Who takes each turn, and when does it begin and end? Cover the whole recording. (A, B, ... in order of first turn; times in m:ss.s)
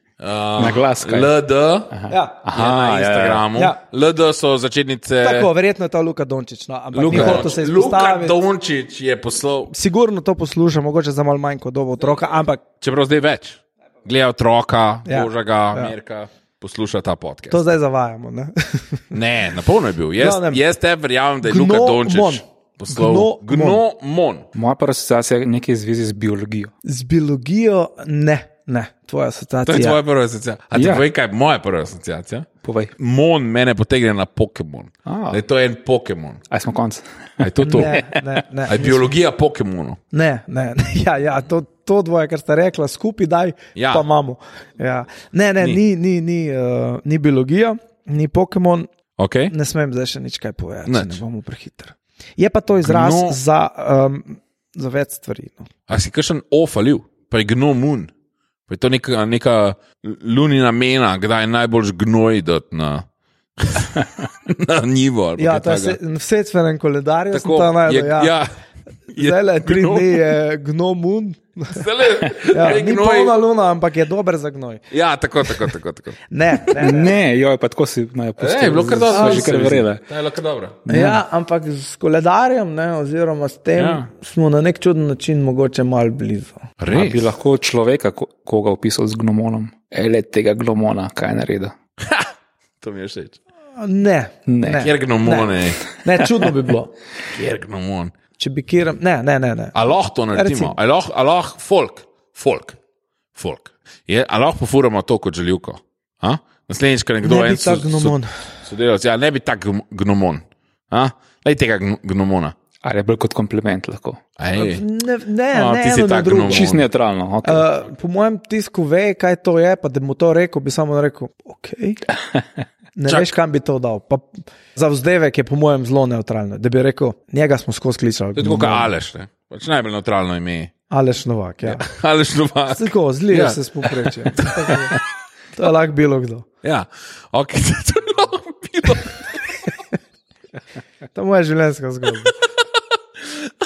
0:00.2-0:02.0 A
0:00.6-0:01.3 B
0:01.9-0:03.5 B
0:02.1-0:02.4 C
0:02.5-0:05.5 A
0:03.5-0:03.8 C
0:05.2-0:08.4 C
0:06.9-0:09.7 A
0:07.1-0:07.5 B
0:09.7-0:12.6 C
0:12.8-0:17.6 A
0:15.1-0:15.9 C
0:17.5-0:19.1 C
0:19.1-0:24.5 A
0:20.2-0:20.6 C
0:21.4-0:23.8 C
0:24.5-0:26.7 B
0:26.8-0:30.0 C
0:29.7-0:36.4 A
0:30.7-0:31.0 B
0:32.6-0:32.9 B
0:35.1-0:35.4 B
0:36.5-0:38.2 B
0:37.4-0:38.0 A
0:37.6-0:39.1 C
0:38.7-0:40.0 A
0:40.1-0:48.9 C
0:43.8-0:44.0 A
0:49.2-0:49.5 A
0:49.5-0:55.7 C
0:50.9-0:51.2 A
0:52.8-0:53.4 A
0:55.9-0:58.1 A
0:58.7-1:03.0 A
1:03.6-1:06.0 A
1:05.4-1:08.4 C
1:07.3-1:08.5 A
1:09.1-1:10.3 A
1:09.1-1:11.8 C
1:11.7-1:13.4 A
1:12.4-1:14.8 C
1:14.9-1:16.2 A
1:16.3-1:17.2 C
1:16.7-1:20.0 B
1:18.4-1:20.8 A
1:19.2-1:19.5 C
1:20.9-1:21.2 B
1:20.9-1:26.6 C
1:23.8-1:24.1 A
1:26.8-1:27.3 A
1:26.9-1:31.7 B
1:32.0-1:32.3 A
1:32.8-1:33.4 A
1:33.8-1:36.9 C
1:34.5-1:34.9 B
1:34.8-1:35.9 A
1:37.3-1:38.1 A
1:38.4-1:39.7 C
1:39.7-1:42.8 A
1:40.3-1:40.7 C
1:43.4-1:52.6 A
1:47.2-1:48.3 C
1:52.8-1:54.2 B
1:54.4-1:54.8 A
1:54.6-1:56.7 C
1:55.6-1:56.8 A
1:56.5-1:57.7 B
1:57.4-2:02.0 C
2:03.0-2:08.9 C
2:03.1-2:03.3 A
2:08.4-2:10.7 A
2:10.9-2:11.9 C
2:11.6-2:14.9 A
2:12.7-2:15.0 C
2:15.6-2:16.5 C
2:16.6-2:19.7 A
2:21.1-2:22.4 C